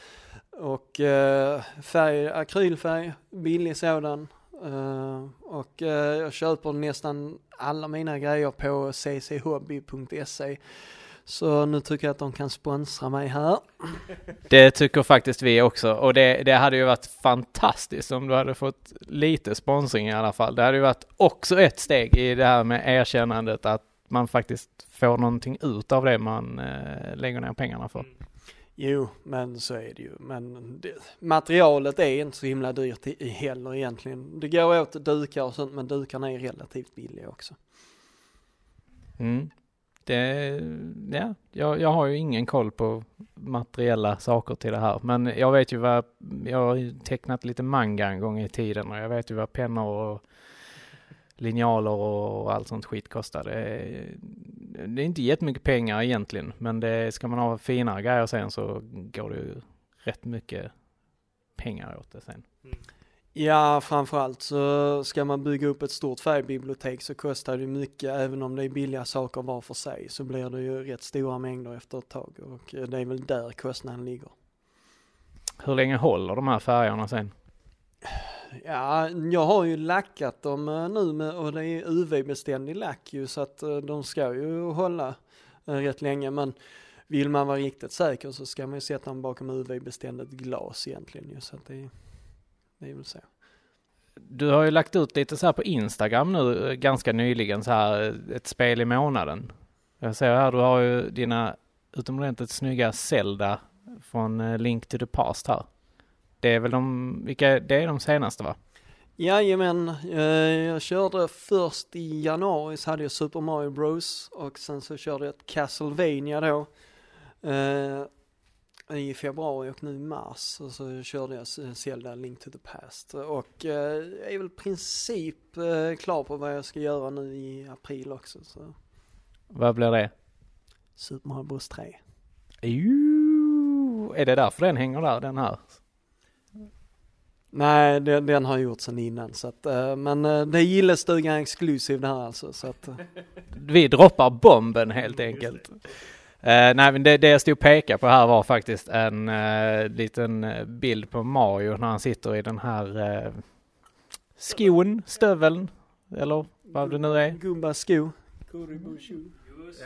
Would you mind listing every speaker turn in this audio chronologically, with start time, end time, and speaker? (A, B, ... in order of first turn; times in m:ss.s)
0:00.5-0:10.6 A
0:11.3-0:13.9 A
0:14.5-0:28.1 B
0:28.8-0:37.6 A
0:39.2-0:39.5 B
0:40.1-0:50.2 B
0:51.4-1:00.7 B
1:01.6-1:02.4 B
1:03.4-1:14.3 A
1:15.6-1:17.3 B
1:18.1-1:25.2 A
1:25.7-1:26.6 A
1:27.1-1:31.9 A
1:32.8-1:33.2 A
1:34.3-1:45.7 B
1:46.4-1:48.6 B
1:49.2-1:56.7 A
1:57.4-1:58.1 A
1:58.9-2:08.7 A
2:09.5-2:10.1 B
2:11.0-2:12.0 A
2:12.6-2:15.7 B
2:17.5-2:23.0 A
2:23.5-2:25.8 B
2:26.4-2:33.4 B
2:34.4-2:37.4 B
2:36.7-2:39.4 A